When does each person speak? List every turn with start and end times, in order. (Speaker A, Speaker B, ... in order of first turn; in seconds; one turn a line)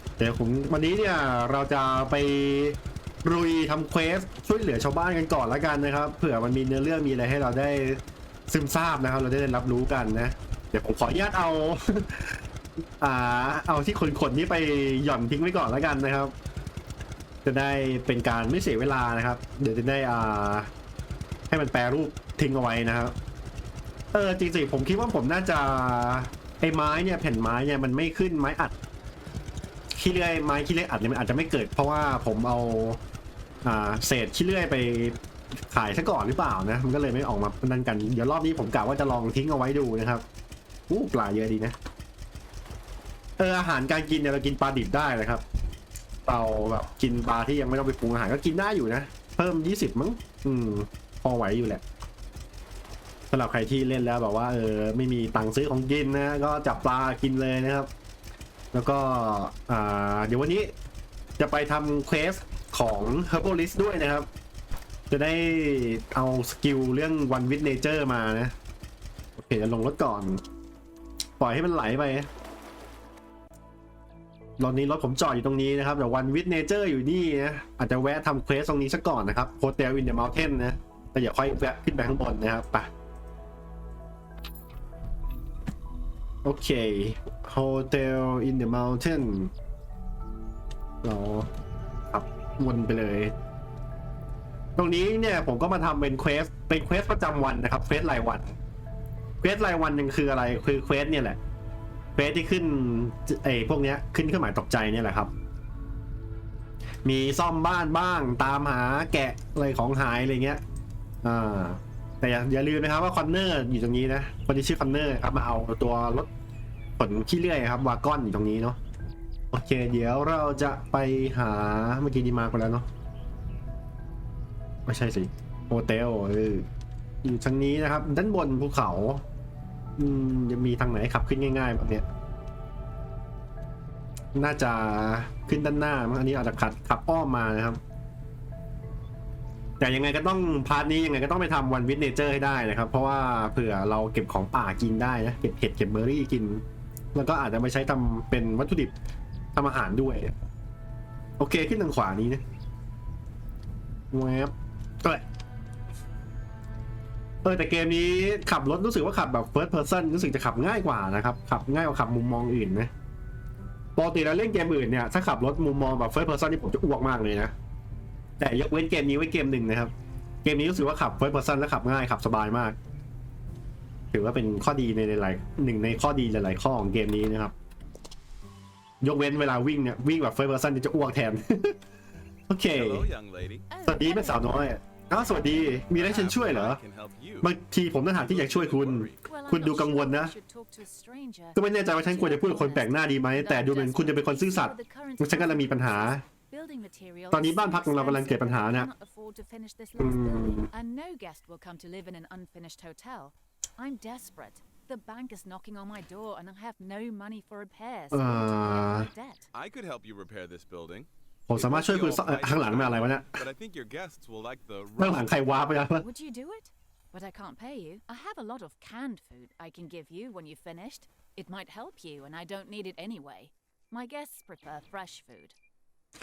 Speaker A: 0.2-12.4
Speaker A: 13.0-16.3
Speaker A: 17.4-20.7
Speaker A: 21.5-23.1
Speaker A: 24.1-28.8
Speaker A: 29.9-33.0
Speaker A: 33.6-40.2
Speaker A: 40.9-41.8
Speaker A: 43.4-45.4
Speaker A: 46.3-51.8
Speaker A: 53.3-57.9
Speaker A: 58.7-60.7
Speaker A: 61.4-64.3
Speaker A: 65.1-68.5
Speaker A: 69.4-70.4
Speaker A: 71.4-72.3
Speaker A: 74.6-82.9
Speaker A: 86.4-89.5
Speaker A: 91.0-91.5
Speaker A: 92.1-93.3
Speaker A: 94.8-98.5
Speaker A: 99.4-101.4
Speaker A: 102.2-105.3
Speaker A: 107.0-110.6
Speaker A: 111.2-116.3
Speaker A: 117.0-118.8
Speaker A: 119.5-122.9
Speaker A: 124.9-126.7
Speaker A: 127.2-129.2
Speaker A: 130.0-132.1
Speaker A: 134.3-137.8
Speaker A: 139.8-146.6
Speaker A: 147.1-148.9
Speaker A: 149.5-150.3
Speaker A: 151.4-152.4
Speaker A: 154.1-155.2
Speaker A: 157.4-162.9
Speaker A: 164.0-167.5
Speaker A: 168.4-169.9
Speaker A: 170.4-172.8
Speaker A: 174.1-177.5
Speaker A: 179.0-181.8
Speaker A: 182.5-183.1
Speaker B: 182.7-183.7
Speaker C: 183.7-184.7
Speaker A: 183.8-186.8
Speaker B: 185.9-187.6
Speaker A: 187.4-190.3
Speaker B: 188.1-189.2
Speaker C: 189.3-209.5
Speaker A: 191.6-196.2
Speaker A: 197.3-198.9
Speaker A: 200.0-200.7
Speaker A: 208.1-209.1
Speaker B: 209.5-215.3
Speaker A: 211.5-213.4
Speaker A: 215.0-216.1
Speaker C: 215.9-225.6